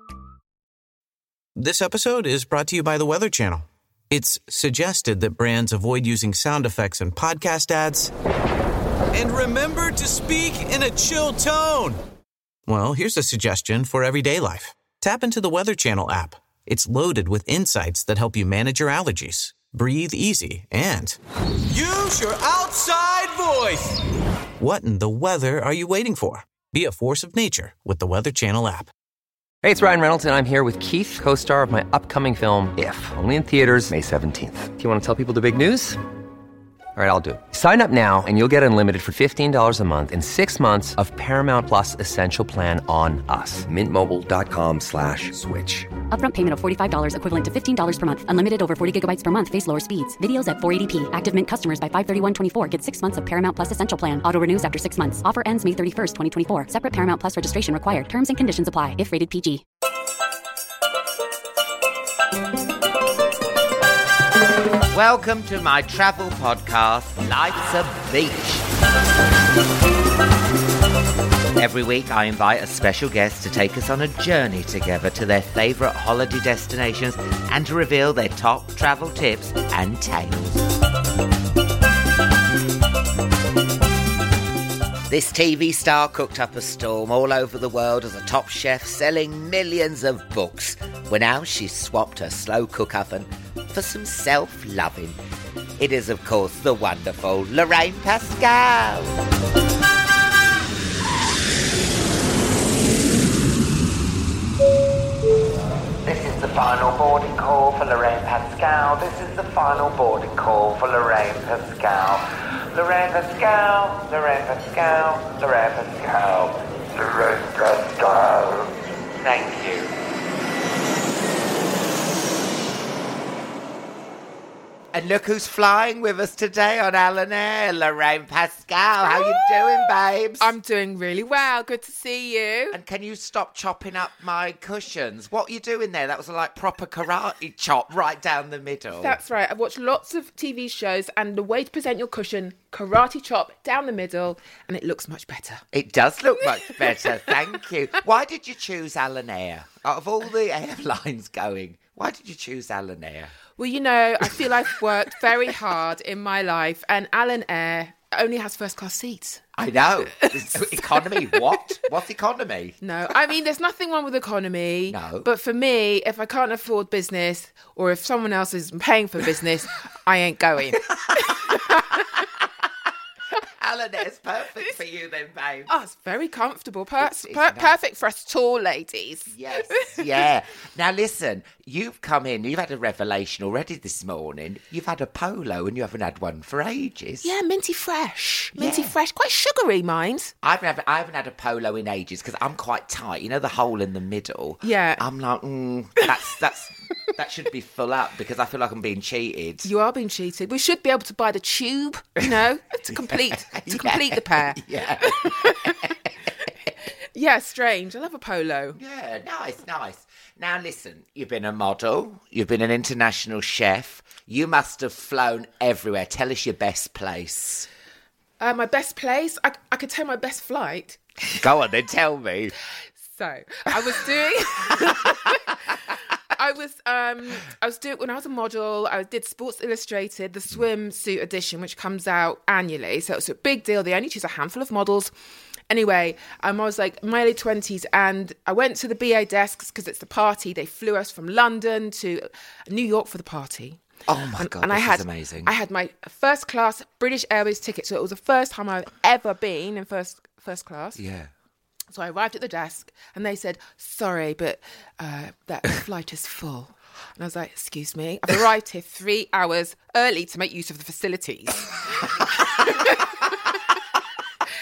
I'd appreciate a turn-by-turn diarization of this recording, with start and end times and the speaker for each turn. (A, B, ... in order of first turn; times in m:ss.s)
0:01.6-0:08.1 A
0:09.1-0:12.0 A
0:12.7-0:24.0 A
0:24.6-0:28.9 A
0:29.6-0:36.0 B
0:37.0-0:45.9 B
0:46.1-0:59.6 C
1:04.9-1:08.7 D
1:11.6-1:20.7 D
1:25.1-1:35.2 D
1:35.8-1:39.2 D
1:46.0-1:59.9 D
2:04.9-2:10.5 D
2:09.1-2:09.8 E
2:10.4-2:12.8 E
2:12.7-2:19.2 D
2:19.0-2:25.6 E
2:25.7-2:33.3 D
2:26.6-2:27.3 E
2:33.6-2:39.4 E
2:39.6-2:42.8 D
2:40.2-2:41.7 E
2:42.8-2:52.3 E
2:44.9-2:45.3 D
2:51.0-2:51.8 D
2:53.6-2:55.7 D
2:55.7-3:00.3 E
2:57.0-2:57.7 D
2:59.3-3:07.3 D
3:07.2-3:10.3 E
3:08.6-3:08.9 D
3:10.4-3:19.7 D
3:14.6-3:15.1 E
3:19.6-3:26.5 E
3:22.9-3:26.0 D
3:27.2-3:28.8 E
3:28.8-3:37.7 D
3:38.4-3:41.0 E
3:41.4-3:42.6 D
3:43.0-3:55.1 E
3:55.7-4:03.8 E
4:04.1-4:05.5 D
4:04.4-4:11.0 E
4:11.0-4:11.3 D
4:11.9-4:23.8 E